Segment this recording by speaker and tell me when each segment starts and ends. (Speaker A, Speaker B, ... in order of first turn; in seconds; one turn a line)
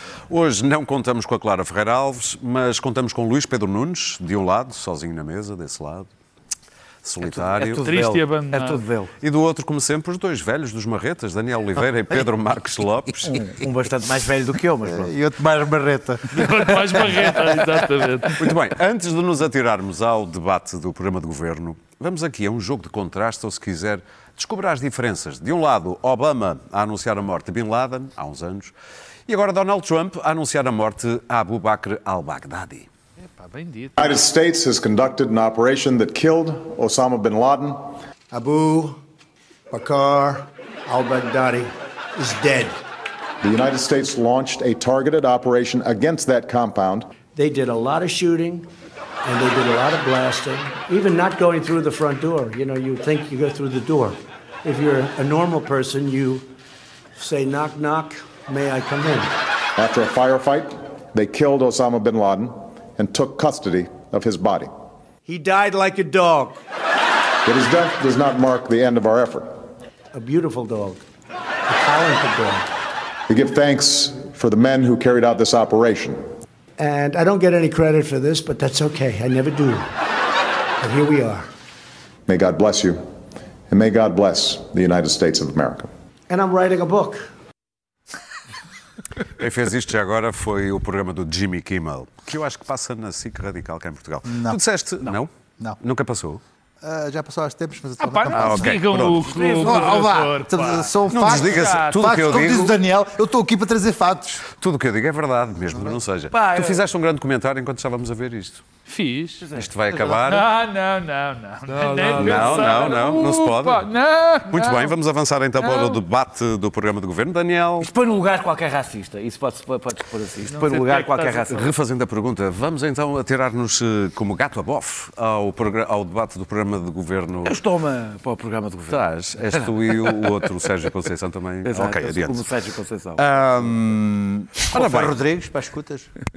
Speaker A: 0.3-6.1
Speaker A: 7.0-7.9
Speaker B: 7.2-9.1
Speaker C: 7.7-8.8
Speaker A: 9.2-13.5
Speaker B: 13.3-15.1
Speaker D: 14.9-17.4
Speaker C: 16.3-18.4
Speaker A: 18.4-28.7
Speaker A: 29.3-32.9
Speaker C: 33.3-34.1
Speaker E: 34.0-38.0
Speaker F: 38.3-39.0
Speaker F: 39.7-42.8
Speaker E: 43.4-47.1
Speaker F: 47.3-48.7
Speaker F: 49.2-56.5
Speaker F: 57.2-59.3
Speaker E: 59.8-64.7
Speaker F: 65.2-66.6
Speaker E: 67.4-69.5
Speaker F: 70.1-71.0
Speaker F: 71.7-72.7
Speaker E: 73.3-76.2
Speaker F: 76.8-79.9
Speaker F: 80.8-81.5
Speaker E: 82.3-83.0
Speaker E: 83.7-85.9
Speaker F: 86.3-87.3
Speaker A: 89.4-96.4
Speaker D: 94.2-94.6
Speaker D: 96.8-98.8
Speaker C: 98.0-102.1
Speaker A: 98.3-99.4
Speaker B: 99.3-99.9
Speaker D: 99.4-104.5
Speaker A: 101.1-102.8
Speaker A: 104.5-108.6
Speaker B: 106.3-106.8
Speaker C: 108.9-109.4
Speaker B: 109.4-110.2
Speaker A: 109.5-110.5
Speaker C: 110.2-114.9
Speaker A: 111.8-113.9
Speaker B: 111.8-112.9
Speaker A: 114.5-117.9
Speaker C: 115.6-116.0
Speaker B: 117.8-121.6
Speaker C: 120.5-121.7
Speaker A: 121.5-127.6
Speaker B: 127.4-129.0
Speaker A: 128.9-132.4
Speaker B: 129.5-130.3
Speaker B: 131.6-133.2
Speaker D: 133.2-136.1
Speaker A: 134.7-135.2